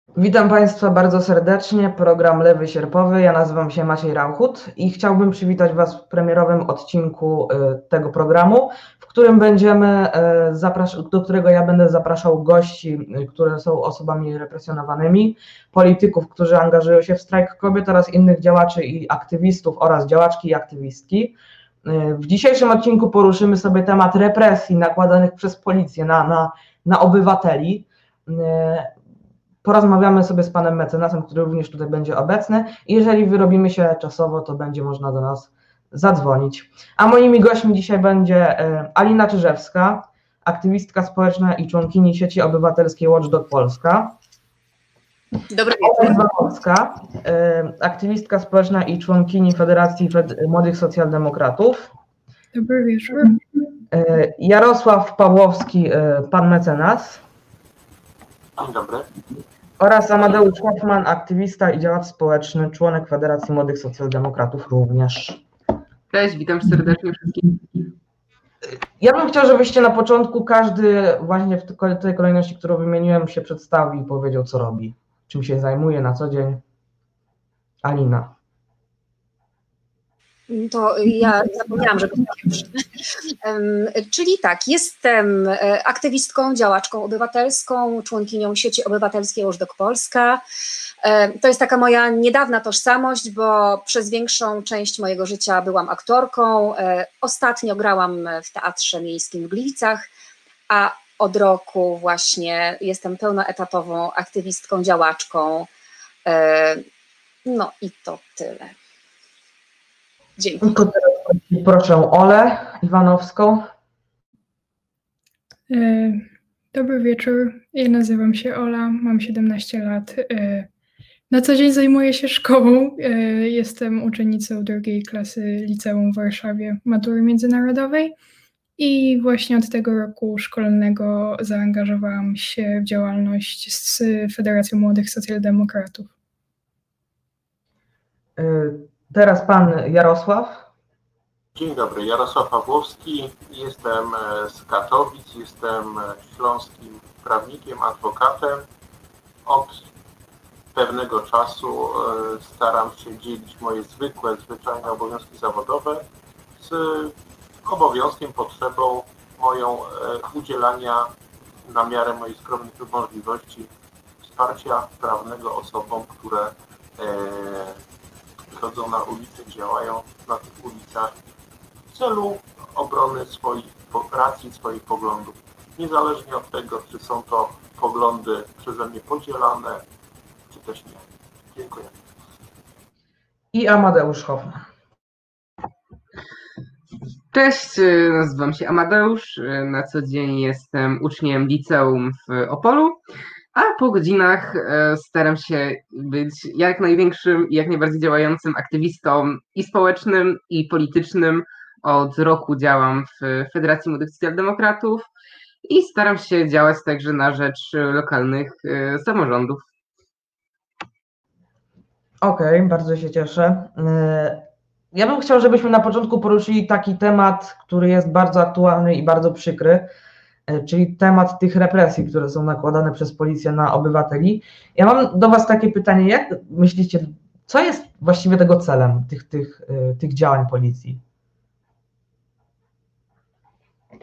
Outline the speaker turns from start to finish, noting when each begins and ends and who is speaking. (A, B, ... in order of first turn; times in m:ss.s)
0:00.1-0:28.9 A
0:29.6-0:44.2 A
0:45.5-0:46.2 B
0:45.8-0:51.9 A
0:52.5-0:53.4 C
0:53.9-0:57.2 A
0:58.6-0:59.1 D
0:59.8-1:05.4 A
1:06.1-1:07.8 E
1:09.0-1:16.6 A
1:17.8-1:18.3 A
1:20.5-1:22.7 B
1:23.4-1:30.4 B
1:31.0-1:40.1 B
1:40.7-1:45.7 B
1:46.2-1:46.8 B
1:47.4-1:48.7 B
1:50.4-1:50.7 B
1:50.6-1:53.7 A
1:55.7-2:00.7 C
2:01.3-2:08.1 C
2:08.8-2:16.1 C
2:18.4-2:20.7 A
2:21.5-2:28.6 D
2:29.4-2:29.8 D
2:30.7-2:36.0 D
2:36.6-2:41.1 D
2:41.7-2:43.7 D
2:44.2-2:47.8 D
2:48.5-2:51.1 D
2:51.9-2:59.8 D
3:00.5-3:01.9 D
3:03.5-3:04.7 A
3:07.3-3:13.0 E
3:13.5-3:25.1 E
3:25.6-3:29.6 E
3:32.2-3:39.9 A
3:40.5-3:51.0 A